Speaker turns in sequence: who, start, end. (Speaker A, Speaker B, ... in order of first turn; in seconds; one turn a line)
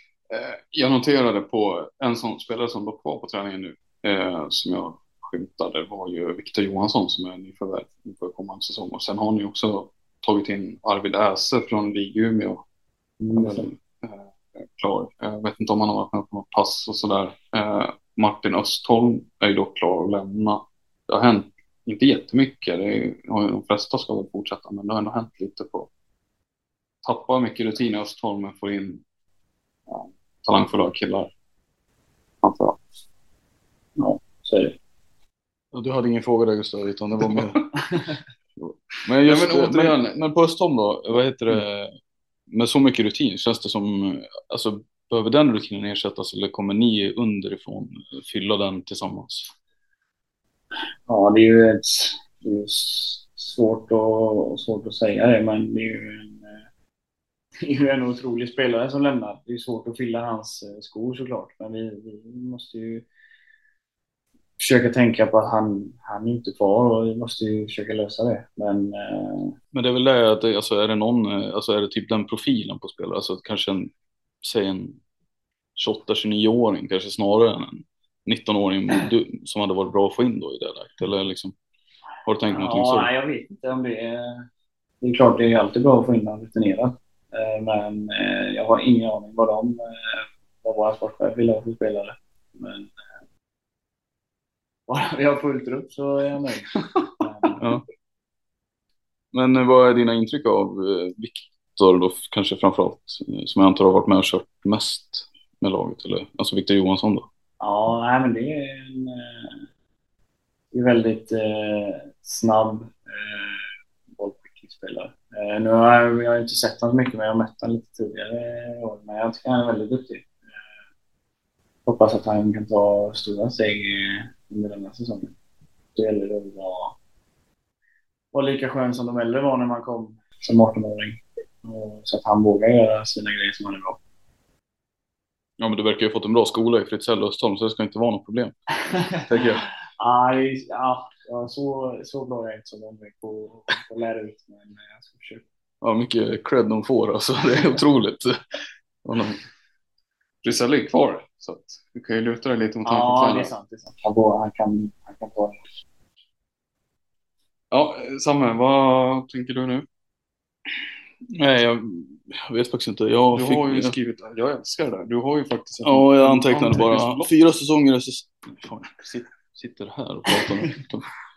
Speaker A: 0.3-12.6
Speaker B: 13.2-13.7
Speaker A: 13.4-25.9
Speaker A: 27.0-29.0
Speaker A: 29.9-31.3
Speaker A: 32.4-32.8
Speaker B: 34.0-34.8
Speaker C: 35.7-37.6
Speaker C: 39.0-42.0
Speaker A: 39.2-40.1
Speaker C: 42.5-49.5
Speaker B: 51.1-56.6
Speaker B: 57.6-63.1
Speaker B: 64.6-69.5
Speaker C: 69.7-73.9
Speaker C: 74.4-75.0
Speaker C: 75.8-81.5
Speaker C: 82.3-83.1
Speaker B: 82.5-84.5
Speaker B: 85.0-93.0
Speaker B: 94.9-97.6
Speaker C: 97.6-97.8
Speaker C: 99.3-107.3
Speaker B: 107.6-109.6
Speaker B: 110.7-120.3
Speaker B: 121.9-125.3
Speaker B: 126.0-127.0
Speaker B: 128.3-134.0
Speaker C: 135.6-138.6
Speaker C: 139.2-139.7
Speaker B: 140.0-145.4
Speaker C: 145.8-148.4
Speaker C: 149.1-149.4
Speaker A: 150.4-153.5
Speaker B: 152.8-155.6
Speaker A: 157.7-159.9
Speaker C: 161.3-163.9
Speaker A: 163.3-167.3
Speaker C: 165.8-171.1